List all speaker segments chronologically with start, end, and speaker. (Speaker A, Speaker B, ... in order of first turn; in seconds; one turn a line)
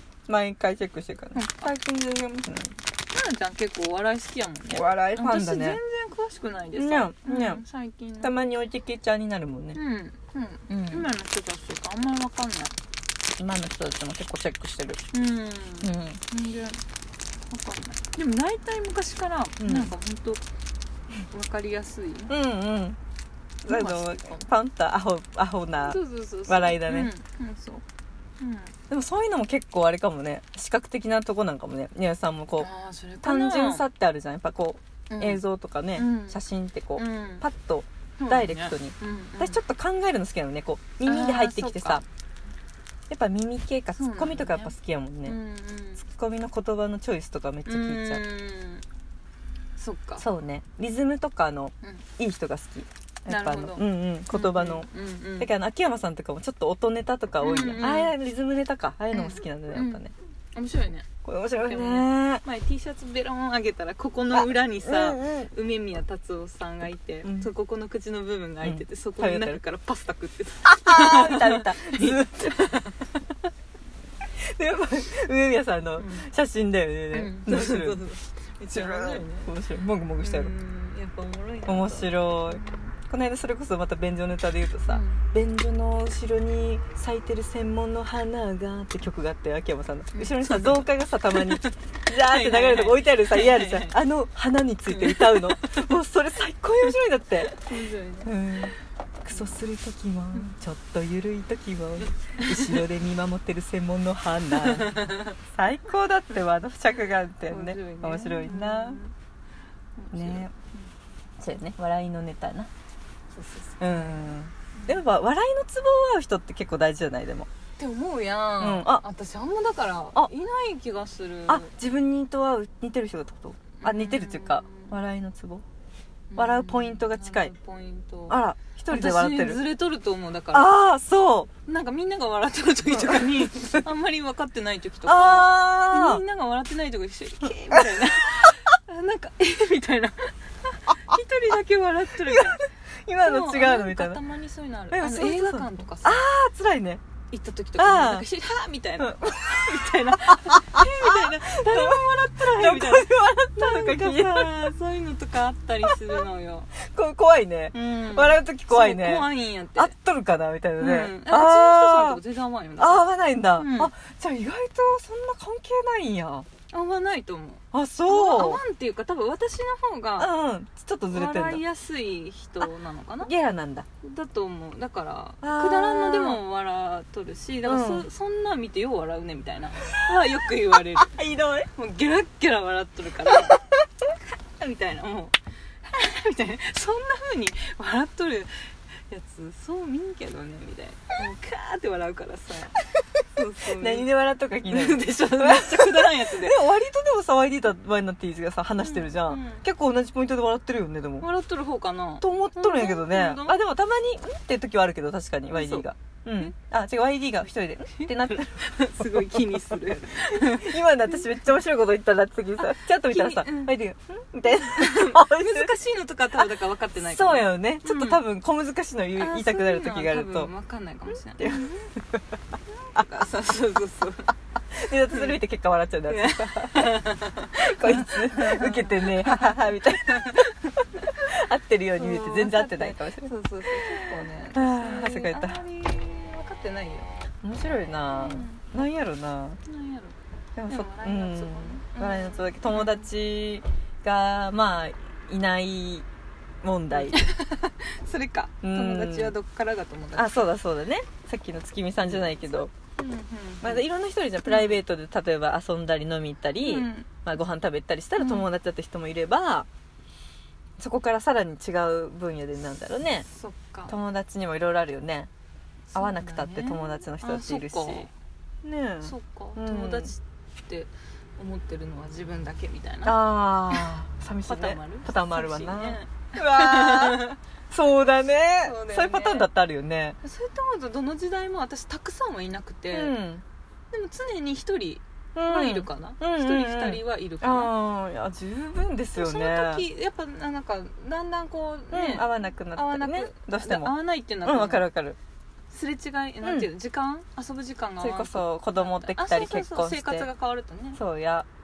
Speaker A: 0.3-2.7
Speaker B: 1.3-2.5
Speaker B: 3.1-8.3
Speaker A: 4.7-5.8
Speaker A: 6.7-7.6
Speaker A: 8.2-9.8
Speaker B: 9.7-12.7
Speaker A: 10.7-11.1
Speaker A: 13.4-15.0
Speaker B: 15.1-16.8
Speaker A: 15.8-16.2
Speaker B: 17.5-20.4
Speaker A: 19.6-19.9
Speaker B: 21.2-22.3
Speaker A: 22.3-23.0
Speaker A: 23.7-27.1
Speaker B: 23.7-24.4
Speaker B: 25.8-27.8
Speaker B: 28.4-28.7
Speaker A: 28.9-32.7
Speaker B: 32.6-33.8
Speaker A: 33.2-42.0
Speaker B: 35.1-35.4
Speaker B: 36.0-36.4
Speaker B: 37.0-37.5
Speaker B: 38.2-39.6
Speaker B: 41.0-42.0
Speaker A: 43.1-45.4
Speaker B: 44.0-46.0
Speaker A: 46.0-48.2
Speaker B: 47.7-48.8
Speaker B: 49.8-50.2
Speaker A: 50.2-60.1
Speaker B: 53.3-55.5
Speaker B: 57.4-58.1
Speaker B: 59.1-60.0
Speaker B: 60.5-73.2
Speaker A: 61.2-62.4
Speaker A: 64.3-65.5
Speaker A: 67.2-67.5
Speaker A: 68.6-69.6
Speaker A: 70.6-72.8
Speaker A: 74.3-78.0
Speaker B: 76.0-76.2
Speaker B: 77.1-79.5
Speaker A: 78.7-80.5
Speaker B: 80.2-82.9
Speaker A: 81.7-97.6
Speaker B: 84.9-85.3
Speaker B: 90.1-94.0
Speaker B: 94.9-95.9
Speaker B: 97.5-98.3
Speaker A: 98.2-105.0
Speaker B: 99.3-99.6
Speaker B: 102.4-102.8
Speaker B: 104.5-105.4
Speaker A: 105.5-109.0
Speaker B: 107.5-109.1
Speaker B: 110.0-110.9
Speaker A: 110.1-110.5
Speaker A: 111.4-112.7
Speaker B: 113.3-115.0
Speaker A: 113.8-117.5
Speaker B: 117.8-121.7
Speaker A: 118.6-119.0
Speaker A: 121.5-125.6
Speaker B: 123.8-125.0
Speaker B: 126.3-130.7
Speaker A: 126.4-127.5
Speaker A: 128.3-129.6
Speaker A: 130.5-131.5
Speaker B: 131.7-142.6
Speaker A: 132.9-133.2
Speaker A: 135.1-136.2
Speaker A: 142.2-144.2
Speaker B: 143.2-146.2
Speaker A: 144.9-147.0
Speaker B: 147.3-156.7
Speaker A: 147.8-148.3
Speaker A: 149.0-154.8
Speaker A: 156.8-162.2
Speaker B: 157.7-159.9
Speaker B: 160.8-163.0
Speaker A: 162.8-166.5
Speaker B: 163.6-163.9
Speaker B: 166.7-170.3
Speaker A: 167.7-168.6
Speaker A: 170.2-171.6
Speaker B: 171.1-173.3
Speaker A: 173.2-173.9
Speaker B: 174.0-181.2
Speaker A: 175.4-176.4
Speaker A: 177.6-178.1
Speaker A: 180.9-181.7
Speaker B: 181.7-183.7
Speaker B: 184.6-192.8
Speaker B: 193.3-196.7
Speaker A: 193.7-201.3
Speaker B: 198.8-199.7
Speaker B: 201.2-203.6
Speaker A: 202.2-209.4
Speaker B: 205.5-205.9
Speaker B: 207.9-211.2
Speaker A: 210.3-215.7
Speaker B: 213.0-213.8
Speaker B: 214.5-218.2
Speaker A: 217.0-220.5
Speaker B: 219.2-221.9
Speaker A: 221.4-222.2
Speaker B: 222.7-224.3
Speaker A: 224.7-227.1
Speaker B: 225.1-225.4
Speaker B: 226.1-230.5
Speaker A: 227.6-233.3
Speaker B: 232.0-237.3
Speaker A: 234.5-235.6
Speaker A: 237.4-239.6
Speaker B: 238.1-238.7
Speaker B: 239.7-240.2
Speaker A: 240.6-246.1
Speaker B: 240.7-243.1
Speaker A: 246.6-247.2
Speaker B: 246.9-250.5
Speaker A: 248.6-249.3
Speaker A: 250.2-252.7
Speaker B: 252.0-253.9
Speaker A: 253.6-259.7
Speaker B: 254.5-254.8
Speaker B: 256.6-257.1
Speaker B: 258.2-258.5
Speaker A: 260.8-263.3
Speaker B: 263.3-263.9
Speaker A: 263.9-265.3
Speaker B: 265.9-268.1
Speaker A: 265.9-268.1
Speaker A: 268.6-270.1
Speaker B: 269.0-273.2
Speaker A: 273.0-280.2
Speaker B: 274.5-277.4
Speaker B: 278.6-279.5
Speaker B: 280.2-283.1
Speaker A: 282.9-283.4
Speaker B: 283.9-287.7
Speaker A: 285.4-289.9
Speaker B: 289.2-294.9
Speaker A: 291.9-295.2
Speaker B: 295.7-301.0
Speaker A: 296.4-296.7
Speaker A: 298.0-300.3
Speaker A: 300.9-301.5